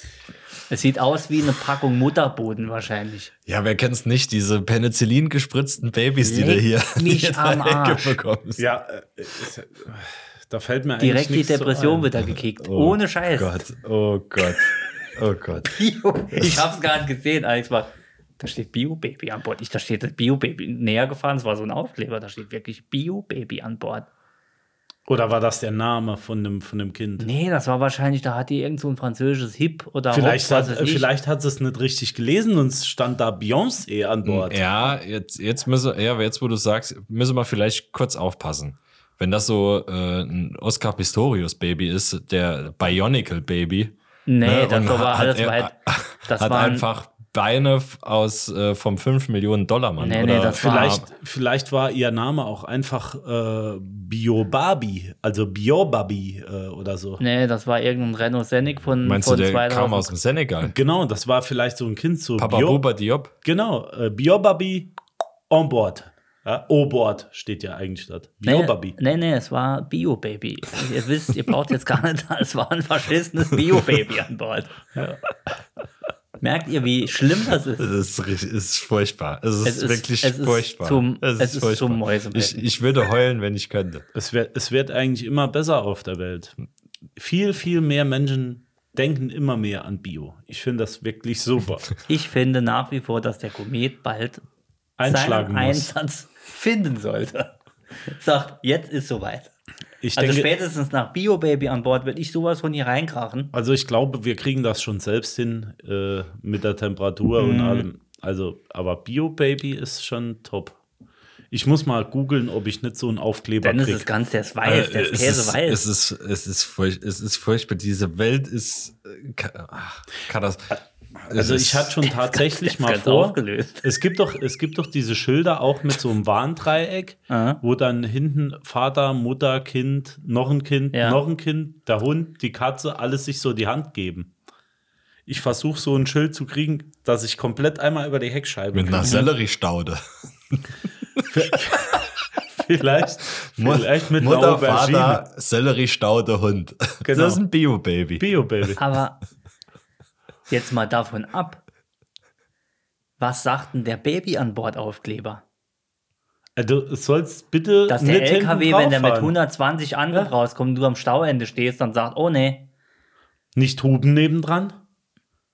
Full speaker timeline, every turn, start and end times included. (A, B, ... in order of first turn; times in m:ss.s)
0:00.7-0:03.3 A
0:03.4-0:08.6 B
0:06.2-0:08.2 A
0:08.6-0:12.1 C
0:11.0-0:13.7 A
0:12.6-0:15.8 B
0:15.7-0:24.1 A
0:16.3-0:16.6 B
0:25.1-0:27.3 C
0:27.2-0:31.1 A
0:30.1-0:34.6 C
0:34.2-0:51.1 B
0:44.2-0:45.7 A
0:46.3-0:46.9 A
0:50.0-0:51.0 A
0:50.5-0:57.2 C
0:57.2-1:00.1 A
0:59.0-1:00.7 B
1:00.7-1:02.8 C
1:02.4-1:03.3 B
1:03.4-1:04.9 C
1:05.5-1:09.0 C
1:08.4-1:14.8 A
1:15.0-1:15.2 C
1:16.4-1:17.9 A
1:17.8-1:24.0 B
1:19.6-1:22.6 A
1:24.1-1:26.6 C
1:27.2-1:31.9 C
1:32.0-1:34.4 A
1:35.0-1:35.9 C
1:35.0-1:37.5 A
1:38.0-1:39.5 A
1:40.0-1:40.5 C
1:40.1-1:43.5 A
1:43.5-1:50.8 C
1:47.4-1:47.8 A
1:51.5-1:54.1 C
1:53.6-1:55.8 A
1:54.6-2:00.8 B
2:01.3-2:14.3 C
2:01.3-2:02.0 B
2:02.4-2:03.9 A
2:07.3-2:07.6 A
2:10.9-2:11.2 A
2:15.3-2:19.3 C
2:18.7-2:21.2 B
2:21.3-2:25.2 C
2:23.4-2:28.3 B
2:27.0-2:27.4 C
2:28.2-2:28.8 C
2:28.8-2:29.2 A
2:30.5-2:31.6 A
2:33.2-2:35.4 A
2:36.6-2:39.3 C
2:37.9-2:42.7 A
2:43.5-2:44.8 C